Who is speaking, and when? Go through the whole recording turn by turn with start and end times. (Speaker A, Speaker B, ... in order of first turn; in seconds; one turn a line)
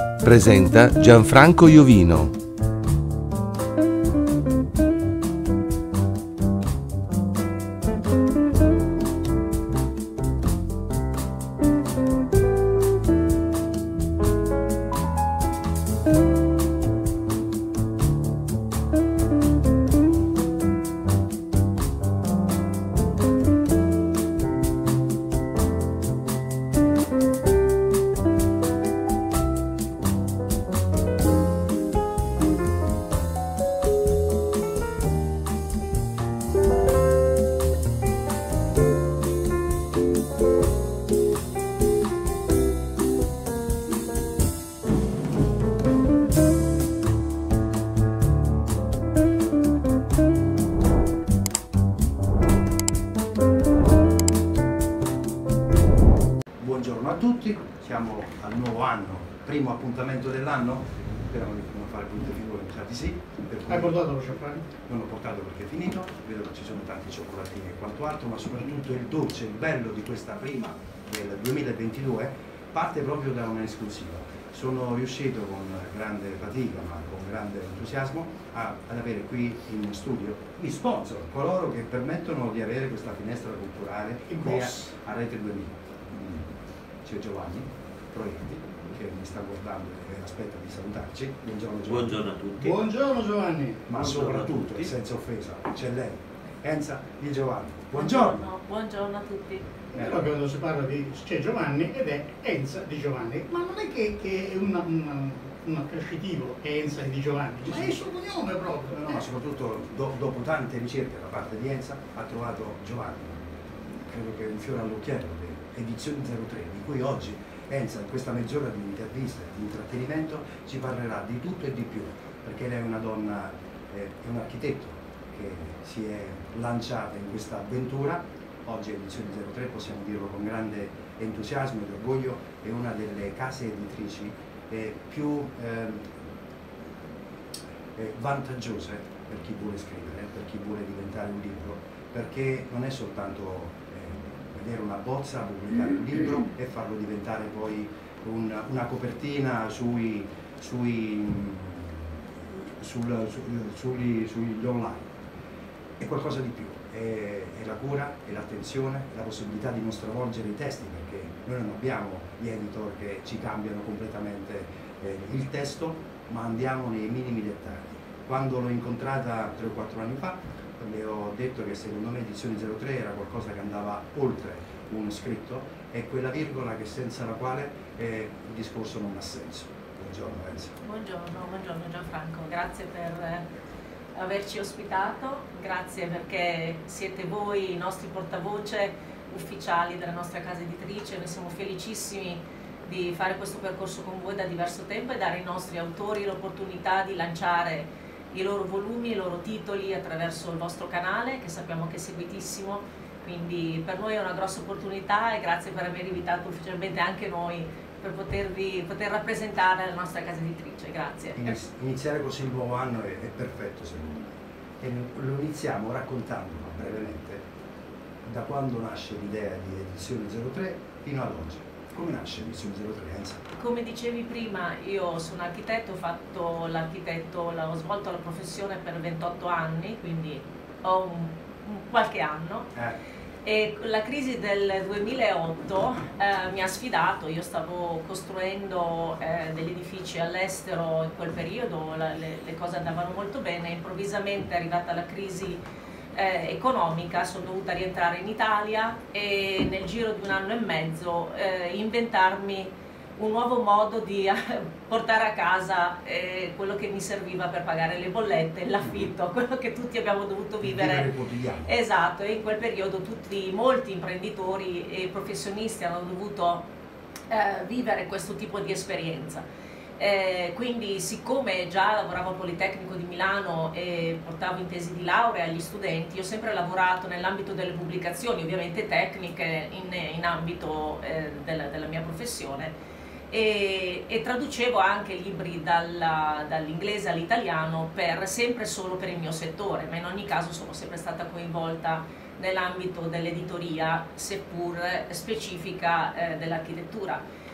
Speaker A: 0.2-2.4
Speaker B: 56.6-64.1
Speaker C: 63.7-64.6
Speaker B: 64.8-86.5
Speaker C: 84.3-84.9
Speaker B: 87.0-92.3
Speaker D: 91.8-92.8
Speaker C: 92.6-93.8
Speaker B: 93.9-98.5
Speaker D: 93.9-94.9
Speaker E: 98.0-99.7
Speaker B: 99.9-100.3
Speaker C: 99.9-109.2
Speaker B: 107.6-108.0
Speaker B: 109.0-136.2
Speaker B: 137.9-155.1
Speaker B: 156.0-180.8
Speaker E: 180.8-183.5
Speaker E: 184.1-211.5
Speaker B: 211.4-217.4
Speaker B: 218.2-223.4
Speaker E: 223.6-232.7
Speaker E: 233.4-245.6
Speaker E: 246.1-261.1
Speaker B: 260.6-261.7
Speaker E: 261.6-266.7
Speaker E: 267.3-269.4
Speaker E: 270.0-282.7
Speaker E: 283.3-297.2